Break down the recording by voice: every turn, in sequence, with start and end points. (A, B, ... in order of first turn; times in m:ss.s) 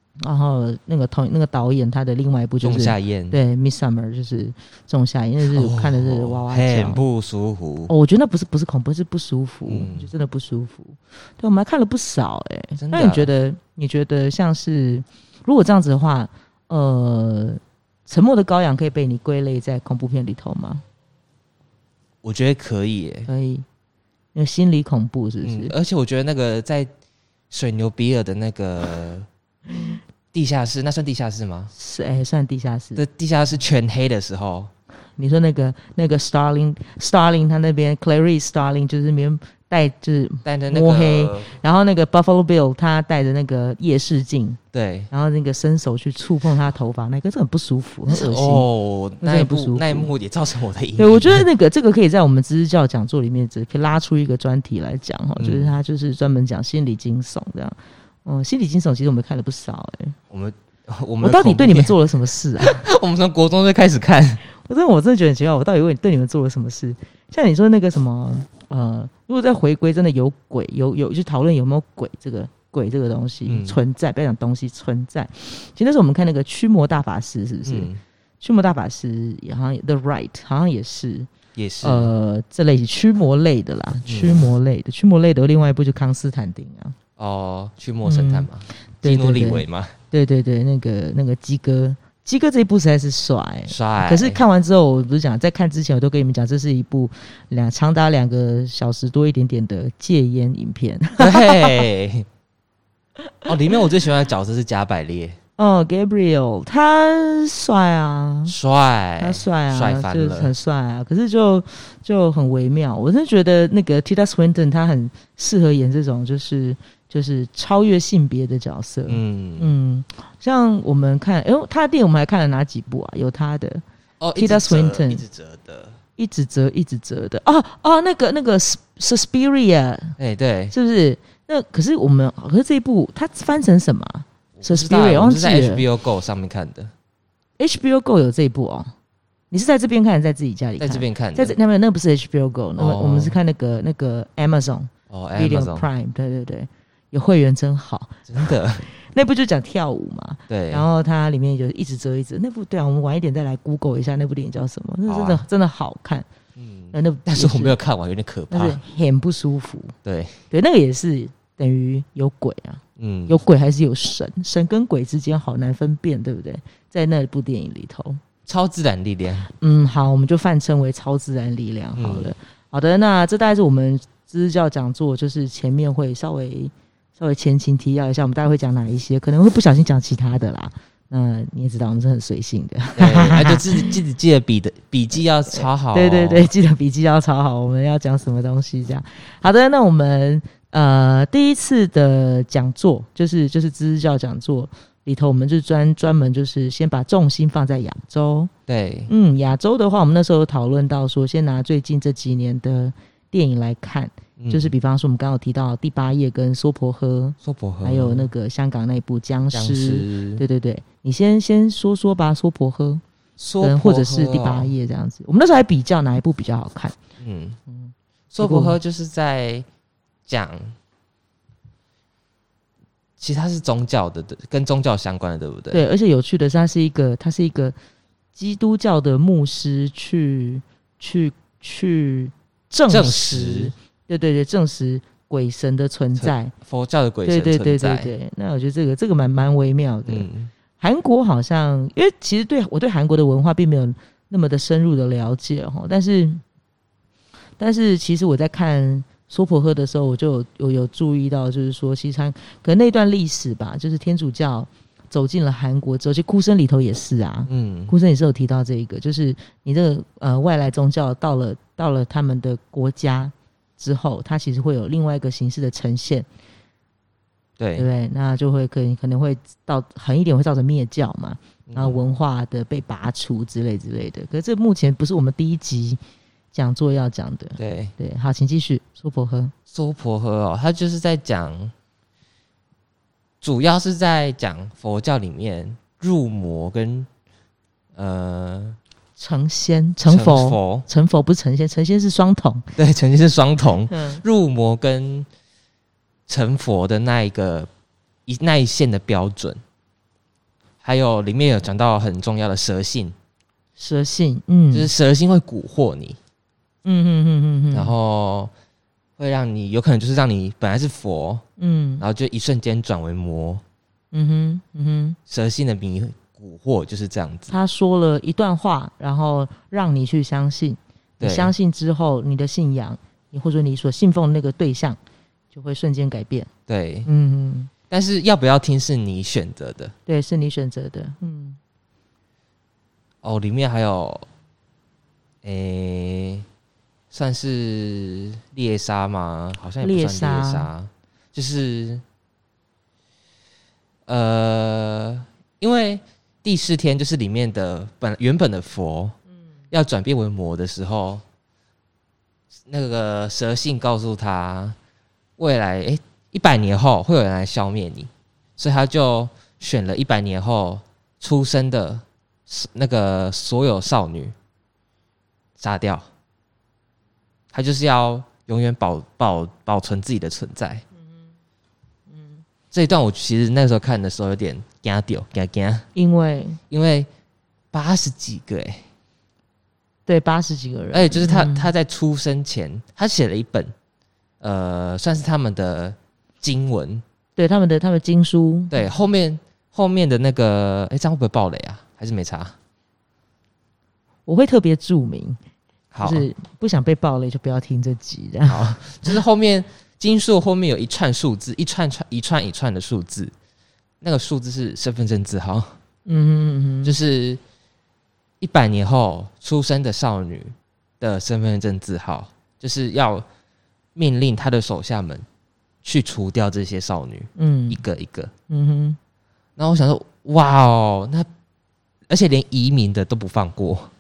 0:00.2-0:07.0 A
0:02.6-0:03.4 B
0:05.4-0:07.9 B
0:07.9-0:20.8 A
0:09.7-0:10.1 B
0:12.8-0:13.3 B
0:22.2-0:23.3 B
0:23.3-0:23.6 A
0:24.3-0:25.7 A
0:25.4-0:26.9 B
0:27.5-0:29.3 B
0:30.3-0:31.7 B
0:31.7-0:33.0 A
0:33.0-0:34.7 B
0:35.2-0:44.6 A
0:40.4-0:41.5 B
0:44.7-0:45.1 B
0:45.1-0:48.7 A
0:48.1-0:51.5 B
0:49.2-0:50.1 A
0:51.0-1:00.2 A
0:55.4-0:55.8 B
1:00.3-1:02.0 B
1:01.2-1:02.8 A
1:02.6-1:04.4 B
1:04.6-1:17.9 A
1:13.4-1:13.8 B
1:17.6-1:18.0 B
1:18.4-1:21.3 A
1:21.5-1:22.1 B
1:21.8-1:27.0 A
1:24.1-1:24.5 B
1:27.2-1:29.9 B
1:28.0-1:28.5 A
1:29.0-1:41.8 A
1:33.7-1:34.4 B
1:41.2-1:42.3 B
1:43.4-1:45.4 B
1:45.6-1:48.5 A
1:48.5-1:50.5 B
1:49.2-2:03.8 A
1:59.1-1:59.7 B
2:04.2-2:06.0 B
2:04.3-2:05.2 A
2:06.2-2:10.2 A
2:10.2-2:10.7 B
2:10.7-2:15.8 A
2:14.6-2:16.9 B
2:17.6-2:18.9 A
2:19.5-2:36.3 A
2:20.8-2:21.6 B
2:22.8-2:23.4 B
2:25.1-2:25.9 B
2:28.3-2:28.8 B
2:30.5-2:30.8 B
2:35.1-2:35.4 B
2:36.6-2:38.8 B
2:36.9-2:37.8 A
2:38.5-2:39.9 A
2:40.0-2:40.4 B
2:40.5-2:48.2 A
2:43.0-2:43.3 B
2:48.4-2:49.5 B
2:49.5-3:03.9 A
2:51.9-2:52.3 B
3:03.0-3:06.5 B
3:05.5-3:18.5 A
3:18.7-3:19.1 B
3:19.1-3:33.0 A
3:24.4-3:24.7 B
3:27.4-3:28.3 B
3:29.5-3:30.4 B
3:33.4-3:34.7 B
3:33.6-3:37.0 A
3:37.2-3:37.6 B
3:37.7-3:38.8 A
3:38.3-3:39.6 B
3:40.3-3:40.7 B
3:43.2-3:45.8 B
3:45.7-3:47.7 A
3:48.3-3:56.5 A
3:52.9-3:53.7 B
3:56.2-3:58.1 B
3:57.2-4:06.4 A
4:00.0-4:00.5 B
4:07.6-4:26.2 A
4:17.5-4:17.9 B
4:27.6-4:27.9 B
4:27.8-4:36.0 A
4:31.7-4:32.0 B
4:36.5-4:39.5 A
4:37.6-4:37.9 B
4:39.7-4:41.7 B
4:43.4-4:47.1 B
4:47.9-4:48.8 B
4:49.2-4:52.6 A
4:50.1-4:50.8 B
4:52.8-4:55.3 B
4:53.9-4:54.2 A
4:56.3-4:57.7 B
4:58.3-4:59.6 B
5:00.8-5:03.1 B
5:03.8-5:04.9 A
5:04.7-5:06.2 B
5:06.8-5:07.9 A
5:07.7-5:08.5 B
5:09.2-5:11.4 B
5:11.6-5:12.0 A
5:12.0-5:13.6 B
5:14.1-5:15.2 A
5:15.3-5:17.5 B
5:17.5-5:25.0 A
5:21.2-5:21.5 B
5:25.5-5:26.5 A
5:26.7-5:27.1 B
5:27.0-5:27.7 A
5:27.9-5:29.9 B
5:30.1-5:31.6 A
5:33.2-5:34.2 B
5:35.4-5:36.4 B
5:37.1-5:42.0 B
5:39.8-5:40.7 A
5:44.1-5:49.1 B
5:49.7-5:51.2 B
5:52.7-5:54.8 B
5:55.4-6:04.3 B
6:05.6-6:06.1 B
6:07.5-6:10.8 B
6:12.7-6:15.9 B
6:15.9-6:16.6 A
6:16.7-6:17.1 B
6:17.7-6:18.8 B
6:20.0-6:21.7 A
6:20.9-6:23.7 B
6:24.4-6:27.0 B
6:27.4-6:28.8 A
6:28.7-6:32.5 B
6:34.2-6:35.4 A
6:35.9-6:36.2 B
6:36.0-6:39.2 A
6:38.5-6:43.3 B
6:44.0-6:45.8 B
6:46.0-6:47.0 A
6:46.8-6:47.4 B
6:48.4-6:53.2 B
6:53.9-6:55.2 B
6:55.8-6:58.3 B
6:57.4-6:57.8 A
6:58.5-6:59.0 A
6:59.6-7:01.3 B
7:02.1-7:03.9 B